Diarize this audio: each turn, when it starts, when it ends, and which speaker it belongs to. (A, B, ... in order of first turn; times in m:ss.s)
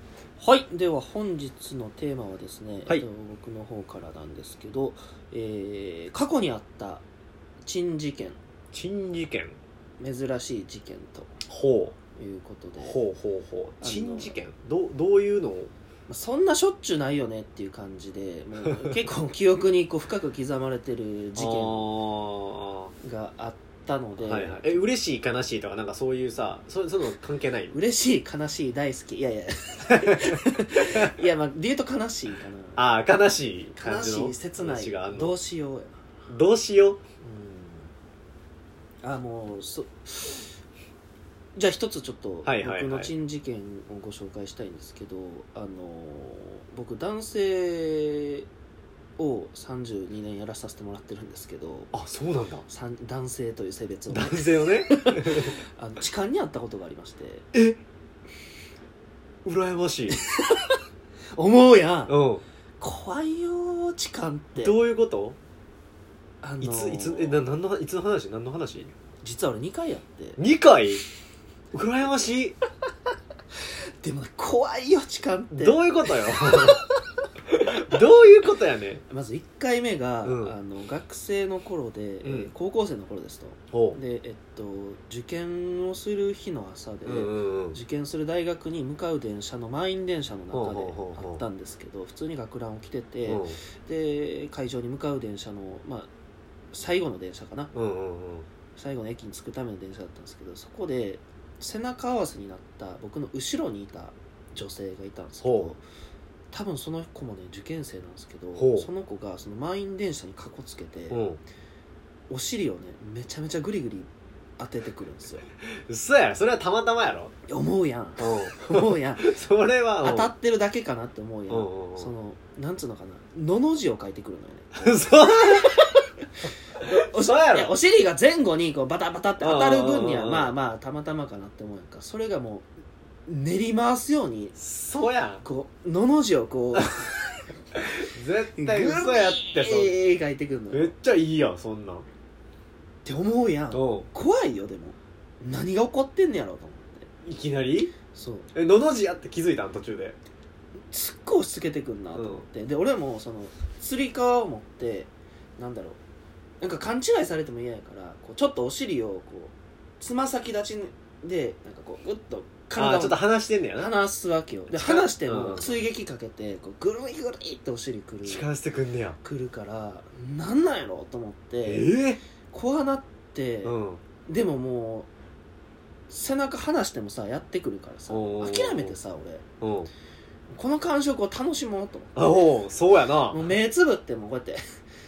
0:00.4-0:07.0 A
0:07.6-0:08.4 A
0:08.7-0:09.6 B
0:10.0-0:11.4 A
0:11.4-0:11.9 B
0:12.1-0:13.0 A
0:12.8-0:15.7 B
0:13.8-0:14.4 A
0:16.1-0:21.9 A
0:21.4-0:22.9 B
0:23.0-0:24.8 A
0:24.2-0:27.8 B
0:27.7-0:32.8 A
0:29.9-0:31.2 B
0:32.8-0:35.4 B
0:33.7-0:36.0 A
0:36.3-0:37.0 B
0:37.2-0:37.9 A
0:39.0-0:40.5 A
0:41.6-0:48.4 A
0:42.4-0:43.1 B
0:49.2-0:51.9 A
0:51.9-0:52.6 B
0:52.7-0:57.5 A
0:54.1-0:55.5 B
0:57.5-0:57.8 B
0:59.4-1:00.2 B
1:00.1-1:00.8 A
1:01.3-1:02.1 A
1:02.1-1:02.4 B
1:02.8-1:04.8 A
1:04.6-1:05.4 B
1:06.4-1:07.4 A
1:06.6-1:08.9 B
1:09.2-1:10.4 A
1:10.4-1:11.0 B
1:11.7-1:12.5 B
1:14.0-1:16.9 A
1:15.5-1:16.8 B
1:17.5-1:19.0 B
1:19.1-1:36.1 A
1:20.2-1:20.5 B
1:22.2-1:22.5 B
1:23.7-1:24.0 B
1:27.0-1:27.8 B
1:30.5-1:31.4 B
1:33.2-1:33.6 B
1:36.7-1:37.7 A
1:37.7-1:38.5 B
1:38.8-1:45.8 A
1:45.4-1:45.7 B
1:46.5-1:51.2 A
1:48.6-1:48.9 B
1:51.1-1:51.4 B
1:52.3-1:55.4 A
1:55.6-1:57.3 B
1:57.5-1:59.4 A
1:58.2-2:00.3 B
2:00.0-2:05.8 A
2:01.5-2:02.1 B
2:04.7-2:05.9 B
2:06.8-2:12.7 A
2:06.8-2:07.7 B
2:09.4-2:10.5 B
2:13.3-2:14.6 A
2:14.6-2:15.4 B
2:15.4-2:17.4 A
2:17.8-2:20.0 B
2:18.6-2:20.9 A
2:20.7-2:22.0 B
2:23.0-2:27.1 A
2:23.7-2:24.1 B
2:27.2-2:27.9 B
2:28.1-2:28.5 A
2:28.5-2:30.2 B
2:30.9-2:36.0 A
2:32.1-2:32.4 B
2:36.6-2:48.4 A
2:42.7-2:43.9 B
2:44.7-2:45.8 B
2:48.2-2:49.2 B
2:49.2-2:51.9 A
2:51.6-2:52.2 B
2:52.5-2:53.7 A
2:53.6-2:54.0 B
2:54.2-2:55.1 A
2:56.1-2:59.4 A
2:58.1-2:58.9 B
2:59.6-2:59.9 B
3:00.5-3:02.5 A
3:02.2-3:03.5 B
3:03.3-3:04.6 A